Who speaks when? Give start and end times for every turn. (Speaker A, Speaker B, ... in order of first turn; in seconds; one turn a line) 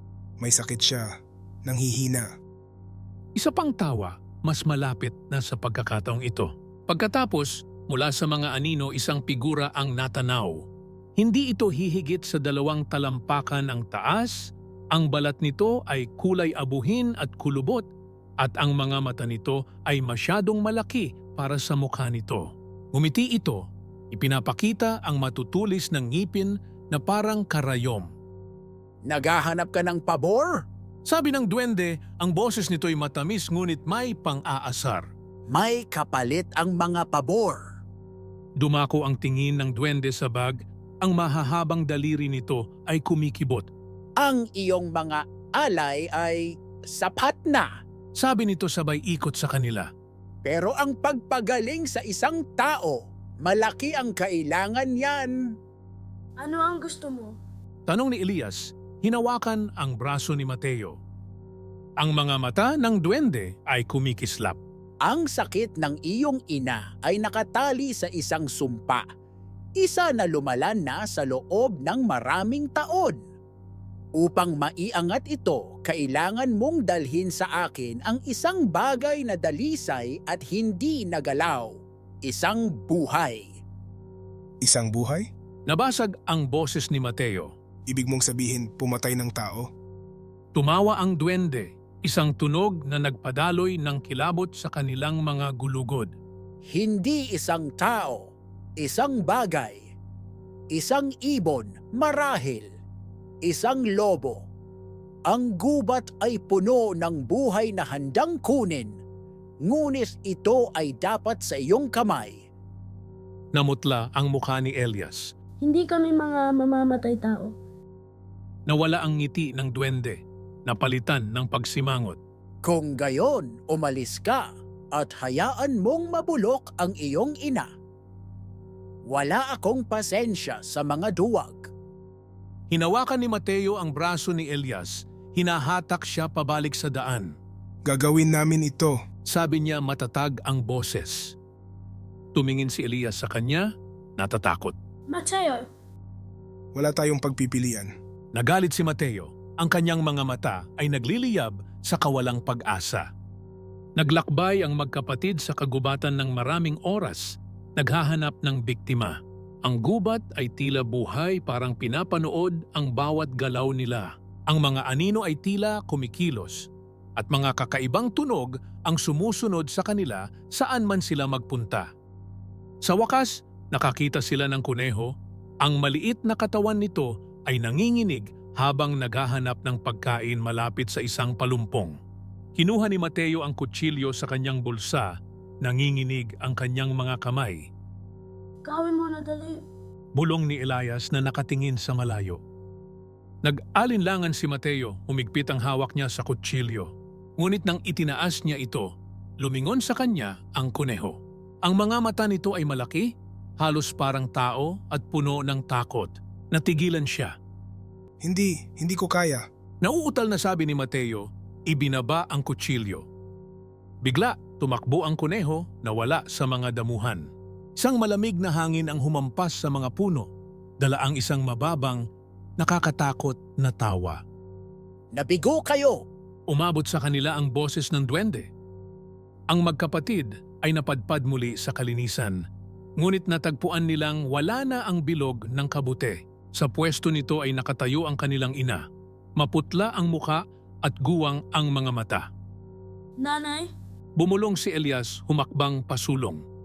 Speaker A: 0.4-1.1
Speaker A: 1.6-2.3
Speaker B: 3.4-17.9
Speaker B: 18.4-28.1
Speaker C: 29.1-30.6
Speaker B: 31.1-35.1
Speaker C: 35.5-37.6
Speaker B: 38.6-43.7
Speaker C: 44.2-47.7
Speaker B: 48.2-49.9
Speaker C: 50.5-55.3
Speaker D: 56.4-57.3
Speaker B: 57.9-61.0
Speaker B: 62.0-64.6
Speaker C: 65.0-69.0
Speaker C: 69.8-73.2
Speaker C: 74.2-83.5
Speaker A: 84.6-85.3
Speaker B: 85.7-87.5
Speaker A: 87.9-89.7
Speaker B: 90.5-96.2
Speaker C: 96.7-99.8
Speaker C: 100.7-102.7
Speaker C: 103.5-104.4
Speaker C: 105.3-109.0
Speaker C: 109.7-112.4
Speaker B: 113.5-115.3
Speaker D: 115.6-117.5
Speaker B: 118.7-122.2
Speaker C: 122.7-127.7
Speaker C: 129.1-131.7
Speaker B: 132.7-137.3
Speaker A: 137.9-139.0
Speaker B: 139.3-141.4
Speaker B: 142.3-143.7
Speaker B: 144.2-144.8
Speaker D: 145.1-145.6
Speaker A: 146.7-147.9
Speaker B: 148.3-153.1
Speaker B: 154.0-171.9
Speaker B: 172.8-182.0
Speaker B: 182.6-187.7
Speaker D: 188.7-189.6
Speaker B: 190.2-192.4
Speaker B: 193.4-207.3
Speaker A: 208.2-209.4
Speaker B: 209.8-213.1
Speaker B: 214.0-220.3
Speaker B: 220.8-222.0
Speaker B: 222.6-224.2
Speaker C: 225.2-226.0
Speaker B: 226.5-228.5
Speaker B: 229.5-232.4
Speaker B: 233.0-238.8
Speaker B: 239.4-242.3
Speaker D: 243.2-243.7
Speaker B: 244.2-246.4